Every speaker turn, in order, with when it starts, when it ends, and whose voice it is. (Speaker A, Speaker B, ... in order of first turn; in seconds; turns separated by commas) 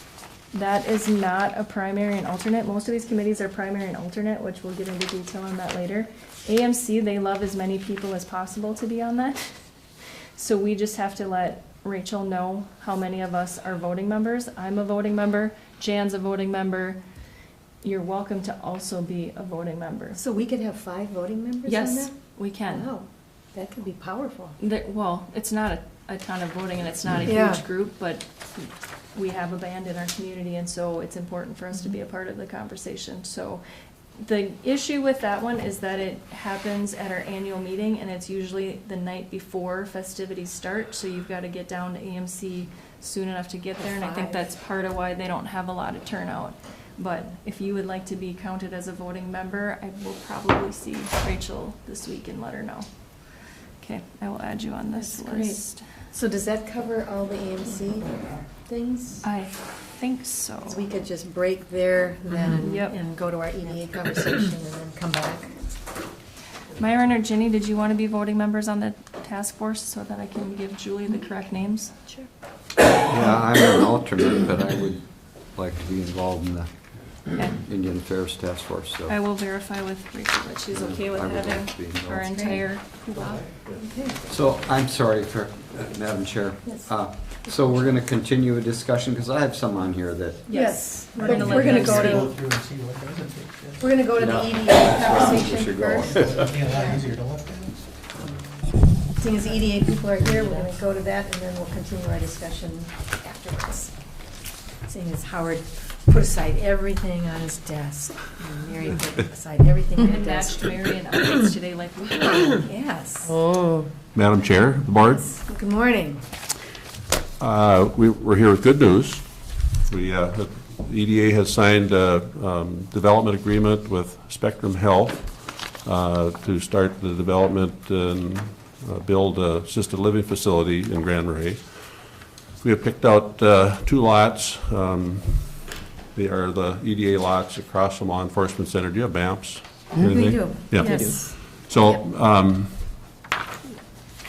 Speaker A: 0.5-9.5, Speaker A: 10.4-17.0, Speaker A: 17.8-20.2, Speaker B: 20.1-24.6, Speaker A: 21.6-22.9, Speaker A: 24.6-33.6, Speaker B: 27.2-27.6, Speaker A: 34.2-52.9, Speaker B: 43.8-44.5, Speaker A: 53.8-55.8, Speaker B: 55.0-59.2, Speaker A: 59.2-60.9, Speaker B: 60.6-65.6, Speaker A: 62.6-63.0, Speaker A: 66.8-71.9, Speaker C: 73.0-79.2, Speaker A: 79.1-83.4, Speaker C: 80.7-82.8, Speaker B: 82.3-84.2, Speaker C: 84.3-90.5, Speaker B: 86.6-86.9, Speaker A: 90.5-92.3, Speaker B: 90.5-92.4, Speaker D: 92.5-93.7, Speaker B: 93.8-97.1, Speaker C: 94.2-96.7, Speaker D: 96.4-97.8, Speaker B: 99.2-103.9, Speaker B: 104.9-110.7, Speaker A: 110.0-112.6, Speaker B: 112.4-113.4, Speaker E: 114.1-115.4, Speaker B: 115.1-116.2, Speaker E: 117.4-143.1, Speaker B: 140.0-142.0